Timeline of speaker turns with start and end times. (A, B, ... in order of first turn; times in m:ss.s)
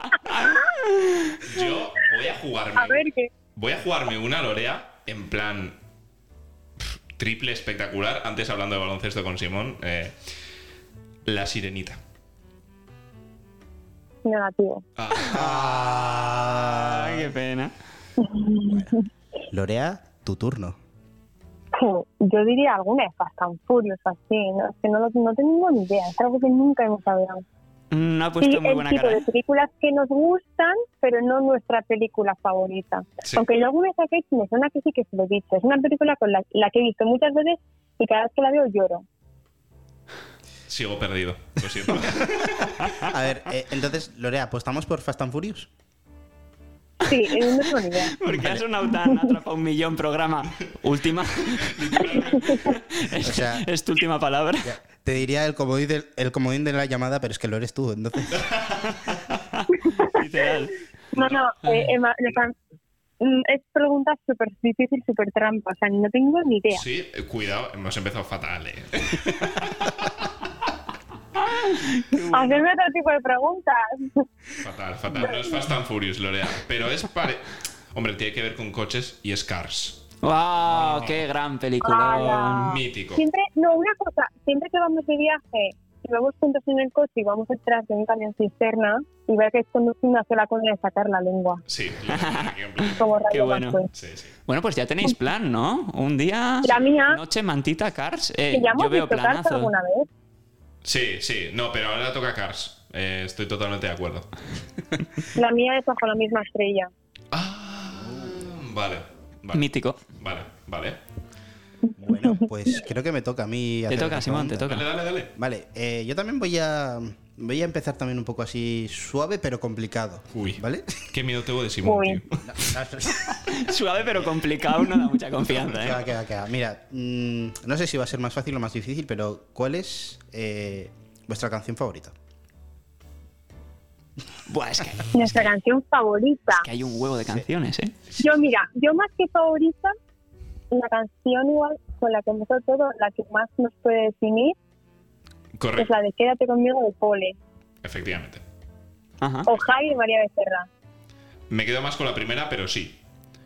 0:00.2-0:01.4 A
0:01.4-0:03.0 B
0:02.8-0:03.3 C
0:03.6-0:05.8 B
0:06.8-0:10.2 B
0:11.3-0:12.0 B
0:14.2-0:14.8 C
0:15.0-0:16.2 B
0:15.2-0:17.3 D
0:16.4-0:17.7 A
0:18.2-0:19.0 C
0:19.5-0:20.8 D
0:21.7-0:27.4 C
0:27.9-0:29.2 A
0:28.4-0:39.0 C
0:40.7-0:43.1 B
0:42.9-0:45.7 D
0:47.1-0:48.2 C
0:47.1-0:54.7 A
0:49.0-0:49.3 C
0:51.6-0:52.7 B
0:52.4-0:52.7 C
0:53.2-0:53.7 D
0:54.6-0:58.5 D
0:58.3-0:59.0 B
0:59.5-1:00.7 A
1:01.1-1:02.6 C
1:03.2-1:06.8 C
1:06.7-1:10.3 B
1:11.5-1:12.6 A
1:12.3-1:14.2 C
1:14.6-1:20.2 B
1:20.2-1:22.8 A
1:20.7-1:21.2 B
1:21.8-1:31.6 C
1:22.6-1:23.2 B
1:31.7-1:33.1 B
1:32.1-1:32.6 A
1:32.9-1:33.9 C
1:33.3-1:33.8 A
1:33.9-1:34.3 B
1:34.5-1:39.7 A
1:36.6-1:37.2 C
1:38.5-1:40.1 C
1:40.8-1:44.3 B
1:45.3-1:46.9 C
1:47.3-1:51.0 B
1:49.5-1:50.0 A
1:51.9-1:52.4 C
1:52.0-1:54.8 D
1:53.9-1:54.8 A
1:54.6-1:55.3 B
1:55.4-2:01.1 D
2:00.3-2:02.8 B
2:01.8-2:02.2 C
2:02.4-2:04.2 D
2:03.4-2:06.0 A
2:05.5-2:12.2 D
2:14.5-2:15.2 A
2:15.1-2:16.7 C
2:16.5-2:18.0 A
2:18.2-2:20.0 C
2:20.7-2:24.6 C
2:25.6-2:26.0 B
2:25.8-2:27.4 C
2:27.8-2:28.4 B
2:29.2-2:29.5 A
2:29.4-2:30.7 C
2:31.5-2:33.0 B